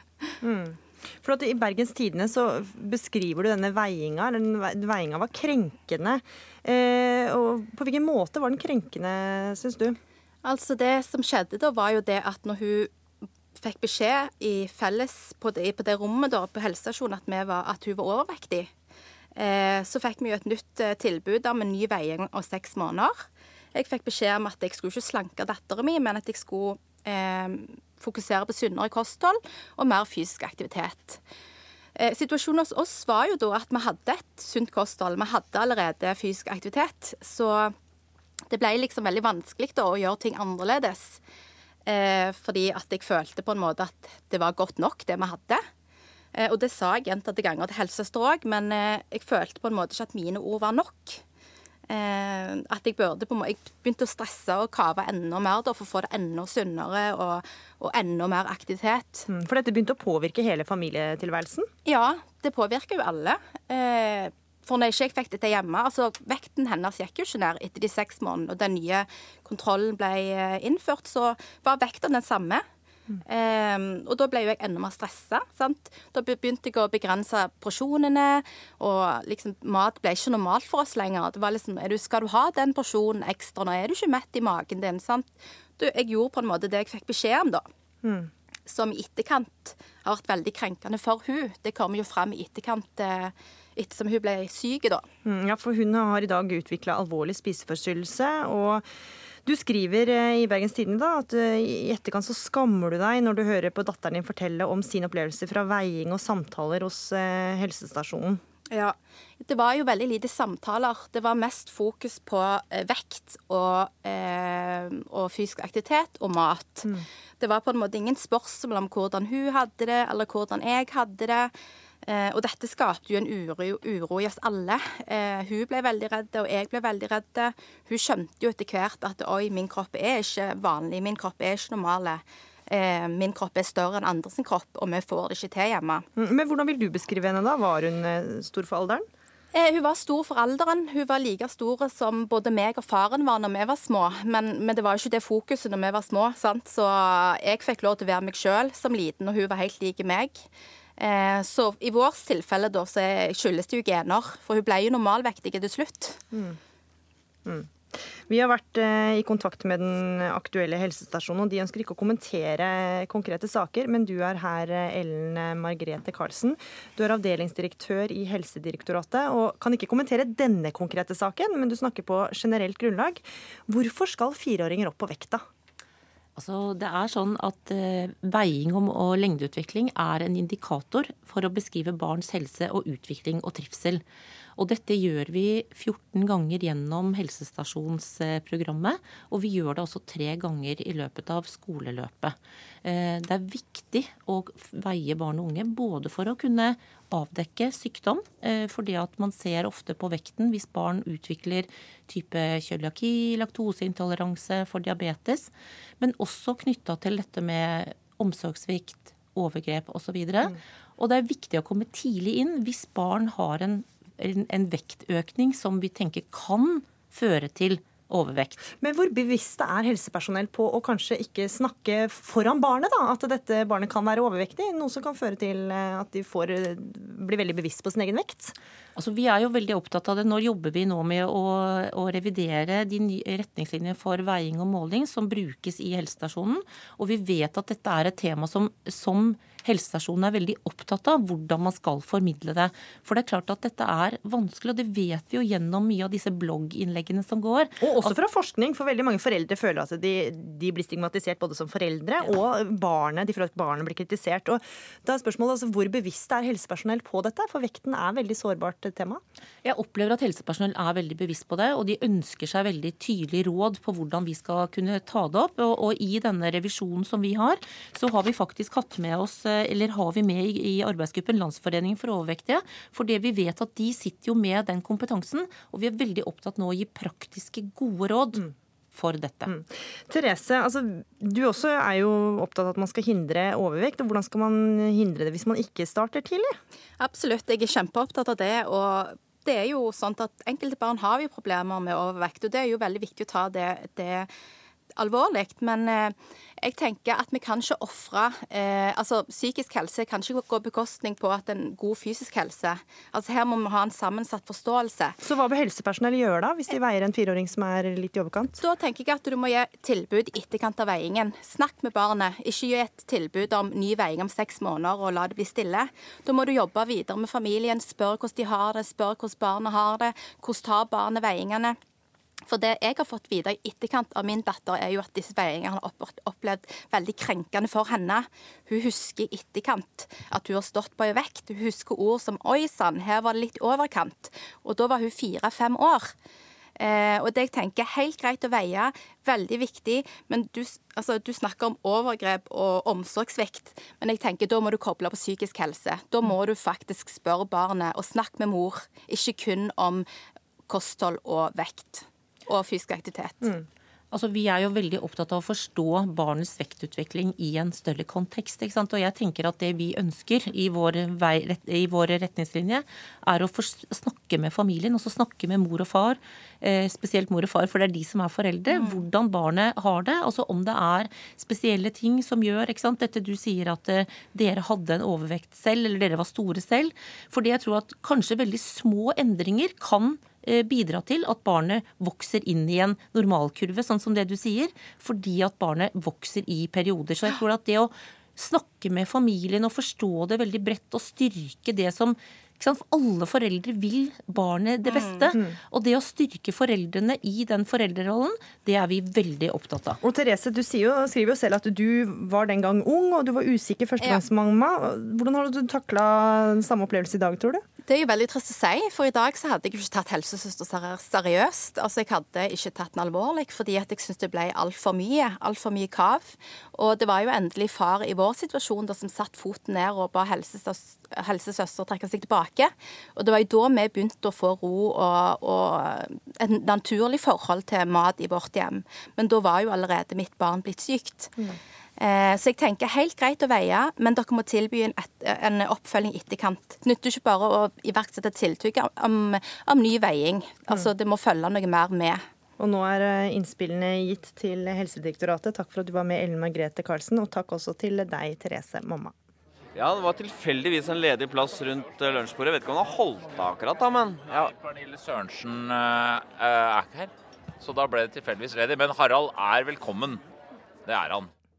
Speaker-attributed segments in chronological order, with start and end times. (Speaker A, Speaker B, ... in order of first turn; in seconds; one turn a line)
Speaker A: 0.4-10.0
Speaker B: 10.4-12.9
Speaker B: 13.6-18.7
Speaker B: 19.4-23.2
Speaker B: 23.7-31.2
Speaker B: 32.0-37.7
Speaker B: 38.5-41.2
Speaker B: 41.9-45.6
Speaker B: 46.3-51.2
Speaker B: 51.9-59.2
Speaker A: 59.3-61.7
Speaker B: 61.9-72.6
Speaker B: 73.2-87.7
Speaker A: 88.0-88.3
Speaker B: 88.7-95.0
Speaker A: 95.2-98.8
Speaker A: 99.4-108.4
Speaker B: 108.7-116.8
Speaker B: 117.4-121.5
Speaker B: 122.0-136.0
Speaker A: 136.2-139.1
Speaker B: 139.5-150.4
Speaker B: 151.0-156.2
Speaker A: 156.3-156.6
Speaker A: 157.4-175.4
Speaker C: 176.3-184.0
Speaker C: 184.6-218.6
Speaker A: 218.8-228.5
Speaker C: 228.9-248.1
Speaker A: 247.8-259.2
Speaker C: 259.6-279.5
Speaker A: 279.5-286.5
Speaker B: 287.0-294.3
Speaker B: 295.0-305.1
Speaker A: 305.2-308.6
Speaker B: 308.6-321.8
Speaker B: 322.5-336.1
Speaker B: 336.8-350.1
Speaker B: 350.7-353.6
Speaker C: 354.1-400.0
Speaker B: 368.7-369.1
Speaker B: 394.9-395.4
Speaker A: 400.0-407.6
Speaker B: 407.9-431.3
Speaker B: 432.0-442.2
Speaker A: 442.6-449.1
Speaker D: 449.7-454.5
Speaker E: 454.4-460.2
Speaker E: 460.9-461.3